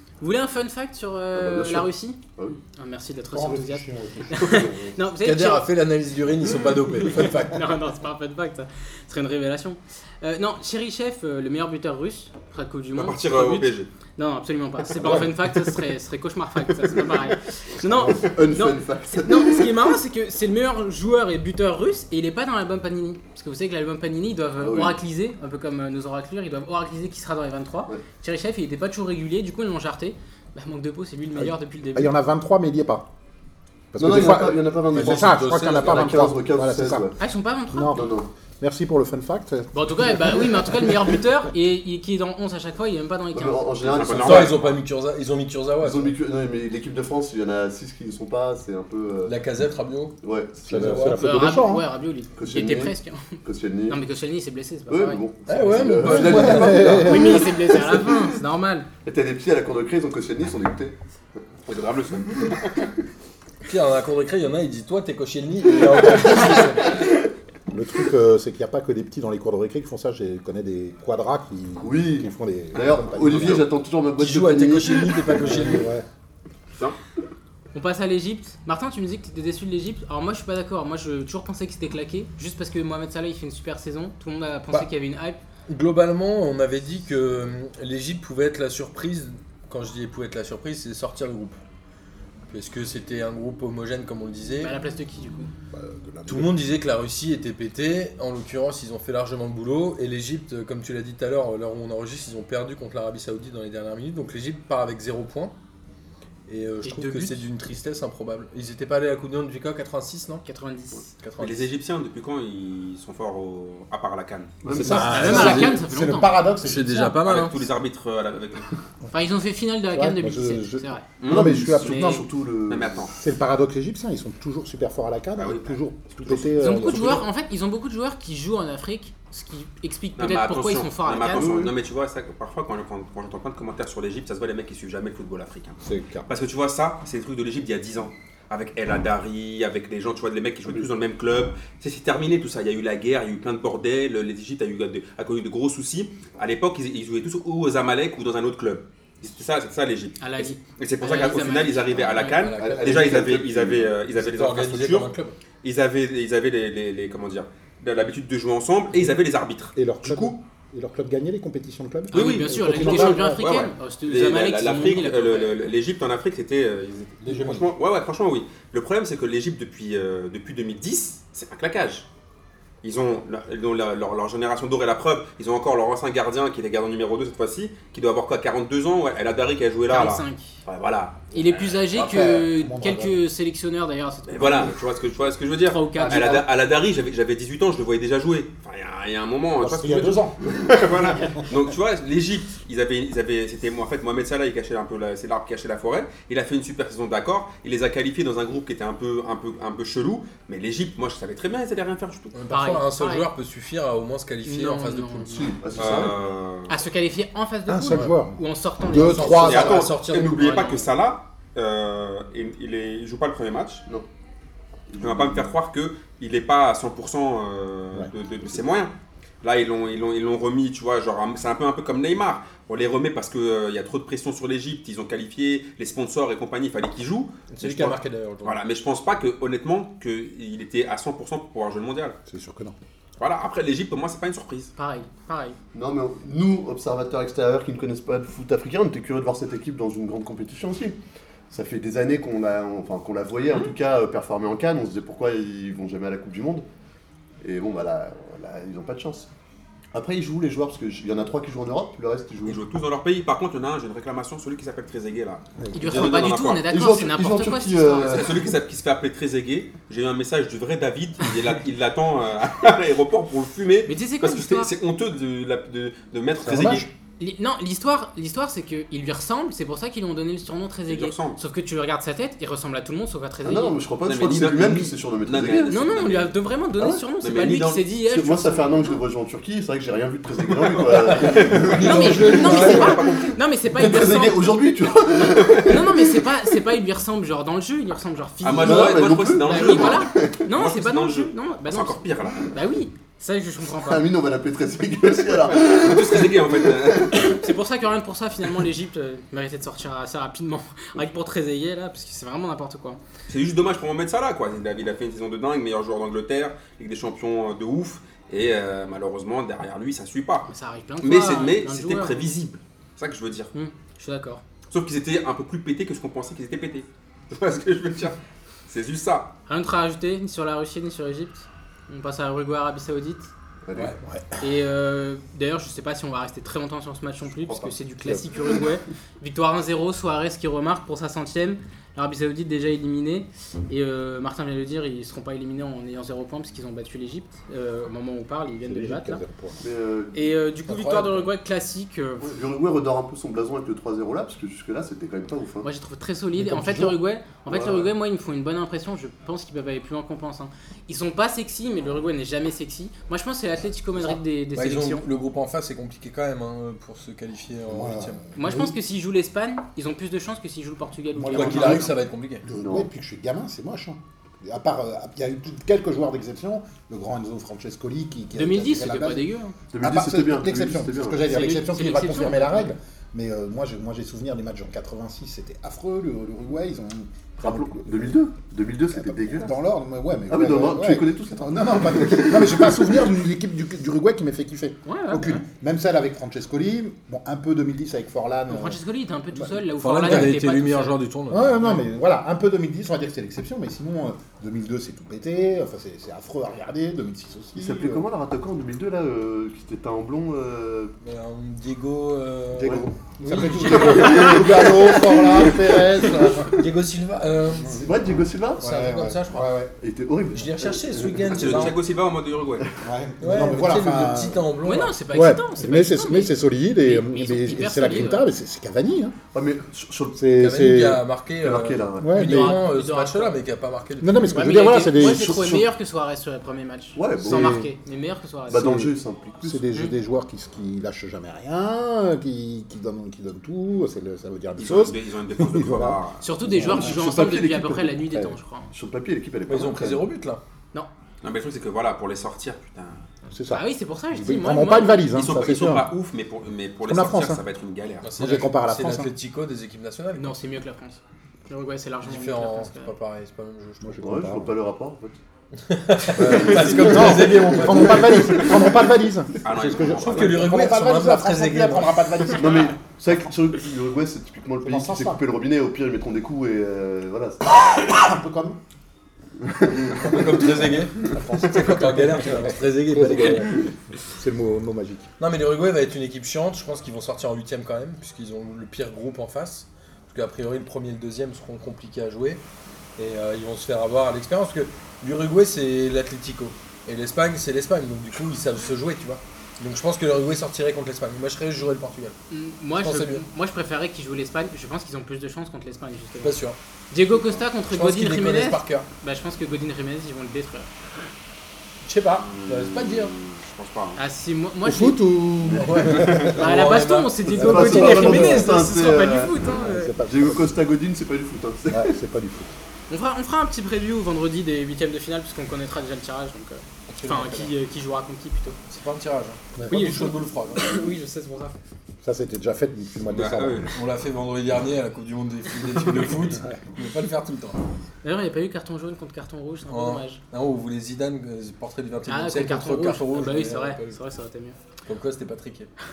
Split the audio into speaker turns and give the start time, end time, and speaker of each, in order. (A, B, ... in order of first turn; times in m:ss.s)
0:00.2-0:02.2 A
0:01.3-0:02.6 B
0:02.7-0:05.7 A
0:03.3-0:04.8 C
0:04.4-0:04.9 B
0:05.2-0:07.6 D
0:07.4-0:32.1 A
0:13.0-0:13.9 E
0:17.8-0:19.7 B
0:24.6-0:25.0 B
0:31.4-0:33.1 C
0:33.9-0:37.1 C
0:34.0-0:37.2 B
0:34.9-0:36.3 D
0:37.2-0:38.1 A
0:37.7-0:40.7 C
0:37.9-0:38.3 B
0:39.7-0:43.8 A
0:43.3-0:44.8 B
0:43.8-0:44.8 E
0:44.2-0:46.2 D
0:45.8-0:49.4 B
0:49.2-0:50.2 D
0:50.2-0:51.2 B
0:50.7-0:51.9 C
0:50.7-0:51.2 D
0:51.1-0:55.2 A
0:52.4-0:54.0 B
0:54.9-0:58.3 B
0:55.5-0:57.0 D
0:56.0-0:57.6 C
0:56.8-0:58.9 A
0:59.0-1:01.0 B
1:01.7-1:02.9 E
1:03.6-1:07.0 D
1:07.7-1:13.7 C
1:11.8-1:15.8 B
1:13.3-1:13.6 E
1:14.2-1:15.9 D
1:15.3-1:16.1 C
1:17.7-1:25.4 A
1:25.7-1:31.6 D
1:32.5-1:34.8 D
1:34.6-1:35.5 A
1:35.7-1:36.6 C
1:36.3-1:45.5 D
1:46.5-1:50.4 D
1:46.8-1:47.4 A
1:50.4-1:51.1 A
1:51.2-1:51.7 D
1:51.4-1:55.0 E
1:54.6-1:55.6 B
1:54.7-1:57.2 C
1:54.9-1:57.1 A
1:55.0-1:55.8 D
1:56.6-1:57.7 D
1:57.2-1:58.9 E
1:59.1-2:01.1 A
1:59.9-2:02.3 C
2:01.2-2:01.6 E
2:01.2-2:03.1 B
2:01.7-2:02.2 A
2:02.7-2:03.1 E
2:03.1-2:07.2 C
2:05.4-2:06.4 E
2:06.6-2:11.5 A
2:10.2-2:35.1 E
2:11.3-2:11.7 B
2:15.8-2:16.3 C
2:30.2-2:32.4 A
2:32.3-2:33.2 D
2:32.6-2:33.9 B
2:34.1-2:35.4 D
2:35.6-2:40.4 E
2:39.8-2:43.5 C
2:42.1-2:45.6 A
2:42.1-2:52.1 E
2:47.3-2:47.7 C
2:52.8-3:01.7 E
2:59.9-3:00.6 A
3:01.3-3:04.8 A
3:01.3-3:03.2 C
3:04.3-3:22.4 E
3:05.6-3:06.4 A
3:06.0-3:06.4 C
3:09.6-3:10.5 C
3:22.3-3:25.6 D
3:22.5-3:23.3 A
3:24.4-3:25.5 A
3:25.3-3:26.2 B
3:25.8-3:26.8 E
3:26.7-3:30.9 A
3:27.7-3:29.9 C
3:29.0-3:30.6 D
3:29.4-3:33.9 E
3:34.9-3:35.5 B
3:35.0-3:52.2 E
3:47.5-3:48.6 D
3:52.3-3:52.8 C
3:53.2-3:54.7 E
3:54.8-3:55.6 A
3:55.7-4:01.0 B
4:01.5-4:06.6 B
4:07.4-4:09.3 B
4:09.9-4:12.6 B
4:12.4-4:16.7 E
4:15.6-4:16.0 C
4:15.7-4:18.2 A
4:16.7-4:18.6 B
4:18.0-4:26.9 E
4:23.9-4:24.7 A
4:26.4-4:26.9 C
4:27.2-4:33.8 A
4:30.9-4:31.4 E
4:33.4-4:35.7 B
4:34.0-4:36.4 E
4:35.7-4:39.0 A
4:36.8-4:37.0 B
4:37.2-4:37.9 E
4:38.0-4:46.3 B
4:40.9-4:42.9 D
4:41.2-4:43.4 E
4:41.8-4:44.6 A
4:42.1-4:42.9 C
4:45.2-4:45.8 E
4:45.6-4:54.1 A
4:48.4-4:52.5 E
4:48.6-4:50.4 B
4:53.8-4:57.4 B
4:55.5-4:57.4 E
4:57.2-5:03.0 A
5:03.3-5:10.5 E
5:10.5-5:12.3 A
5:11.0-5:13.5 E
5:13.5-5:14.4 A
5:14.7-5:19.3 E
5:19.5-5:23.3 A
5:23.7-5:24.0 B
5:24.4-5:39.2 A
5:27.4-5:27.7 B
5:38.6-5:39.6 C
5:39.6-5:40.3 B
5:40.1-5:42.3 A
5:40.7-5:41.3 D
5:42.2-5:45.7 B
5:45.6-5:55.0 A
5:46.4-5:47.0 C
5:47.5-5:47.9 B
5:54.5-5:58.2 D
5:57.7-5:58.7 C
5:58.4-6:02.0 A
6:01.1-6:09.3 C
6:01.3-6:02.5 D
6:02.5-6:02.9 B
6:08.4-6:09.6 A
6:09.7-6:11.3 B
6:09.8-6:18.1 C
6:11.2-6:12.7 A
6:17.4-6:19.5 B
6:18.9-6:28.8 C
6:20.3-6:22.9 B
6:24.9-6:25.4 A
6:28.5-6:31.0 A
6:29.3-6:30.3 C
6:29.8-6:31.8 D
6:31.3-6:38.0 C
6:37.6-6:41.0 B
6:41.0-6:44.8 D
6:42.6-6:45.7 B
6:42.6-6:46.6 C
6:46.1-6:47.9 D
6:47.6-6:47.9 C
6:47.8-6:48.8 B
6:48.6-6:49.5 D
6:48.6-6:49.7 C
6:49.8-6:51.8 B
6:50.4-6:51.8 D
6:51.3-6:52.7 E
6:52.8-6:54.4 C
6:53.2-6:55.0 D
6:54.6-6:58.3 A
6:55.1-6:59.2 C
6:59.3-7:00.3 B
7:00.2-7:01.0 C
7:00.4-7:04.5 D
7:01.4-7:02.2 B
7:02.0-7:02.6 C
7:02.2-7:03.4 A
7:04.0-7:05.6 C
7:04.2-7:08.8 A
7:05.0-7:05.7 B
7:07.0-7:07.7 B
7:07.2-7:07.7 C
7:08.5-7:09.7 B
7:08.5-7:17.0 C
7:14.6-7:16.2 E
7:16.2-7:18.7 A
7:16.6-7:18.1 B
7:18.7-7:20.1 B
7:19.5-7:20.4 D
7:21.2-7:23.0 E
7:23.3-7:25.9 C
7:23.5-7:25.1 A
7:25.1-7:28.1 E
7:26.8-7:27.4 C
7:28.0-7:30.4 D
7:28.2-7:29.1 C
7:30.2-7:32.9 A
7:32.0-7:34.0 D
7:33.8-7:34.5 C
7:34.0-7:35.2 B
7:35.6-7:38.5 D
7:36.2-7:37.6 B
7:36.2-7:42.7 C
7:39.4-7:40.5 E
7:40.0-7:42.0 D
7:42.4-7:47.9 B
7:44.6-7:45.2 C
7:47.5-7:48.6 C
7:49.5-7:50.4 B
7:49.9-7:53.6 D
7:51.1-7:51.4 B
7:51.5-7:55.1 C
7:55.2-8:02.4 D
8:03.0-8:12.2 D
8:12.3-8:16.4 A
8:12.8-8:13.2 D
8:16.2-8:16.6 D
8:16.9-8:20.7 A
8:17.6-8:18.9 D
8:21.8-8:23.2 D
8:22.3-8:24.0 E
8:24.0-8:25.0 A
8:24.6-8:26.4 C
8:25.4-8:26.4 B
8:25.5-8:28.2 D
8:26.3-8:30.0 A
8:27.3-8:29.4 B
8:27.4-8:28.6 C
8:29.5-8:30.6 C
8:30.1-8:31.9 B
8:31.7-8:32.5 C
8:32.9-8:38.6 A
8:36.9-8:37.5 D
8:38.7-8:40.8 D
8:39.6-8:40.0 C
8:39.7-8:41.5 A
8:42.0-8:43.7 C
8:43.1-8:43.7 E
8:43.7-8:47.6 D
8:48.0-8:50.2 A
8:49.7-8:54.0 D
8:52.1-8:54.6 A
8:54.8-8:55.7 D